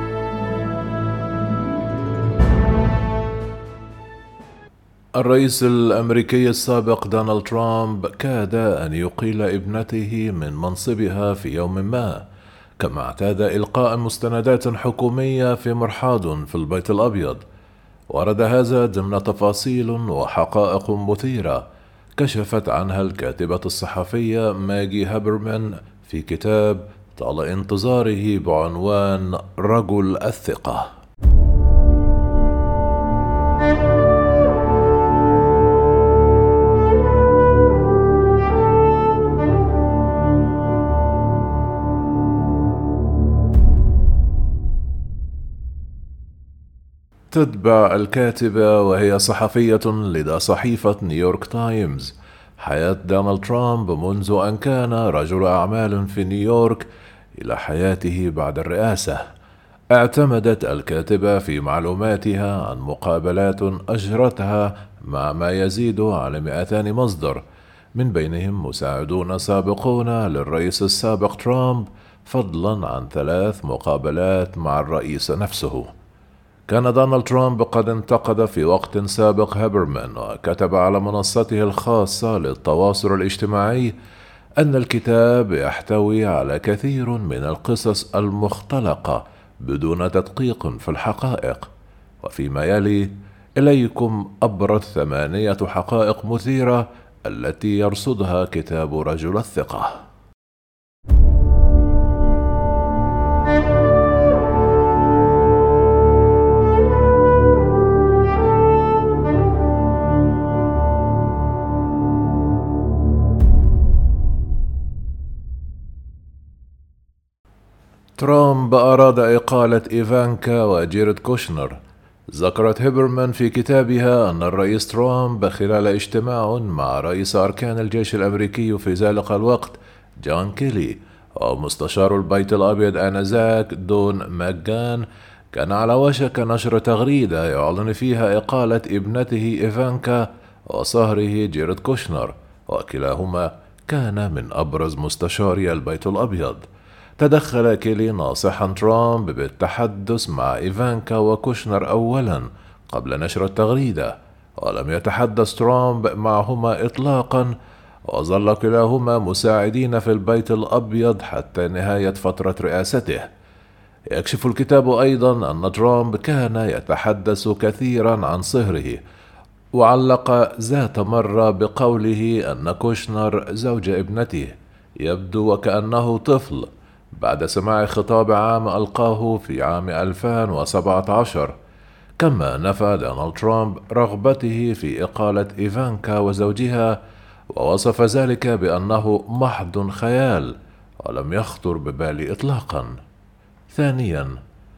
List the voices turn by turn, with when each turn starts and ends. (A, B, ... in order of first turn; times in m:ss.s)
0:05.2-0:12.2 A
0:12.8-0:17.4 A
0:18.1-0:21.6 A
0:22.2-0:30.9 A
0:47.3-0:59.2 A
0:59.9-1:07.4 A
1:08.0-1:15.9 A
1:16.7-1:23.9 A
1:24.6-1:31.7 A
1:32.2-1:40.0 A
1:58.2-2:01.8 A
2:02.3-2:26.6 A
2:27.2-2:37.5 A
2:38.1-2:43.3 A
2:44.1-2:49.0 A
2:49.8-3:01.5 A
3:02.2-3:07.0 A
3:07.5-3:13.0 A
3:13.7-3:14.3 A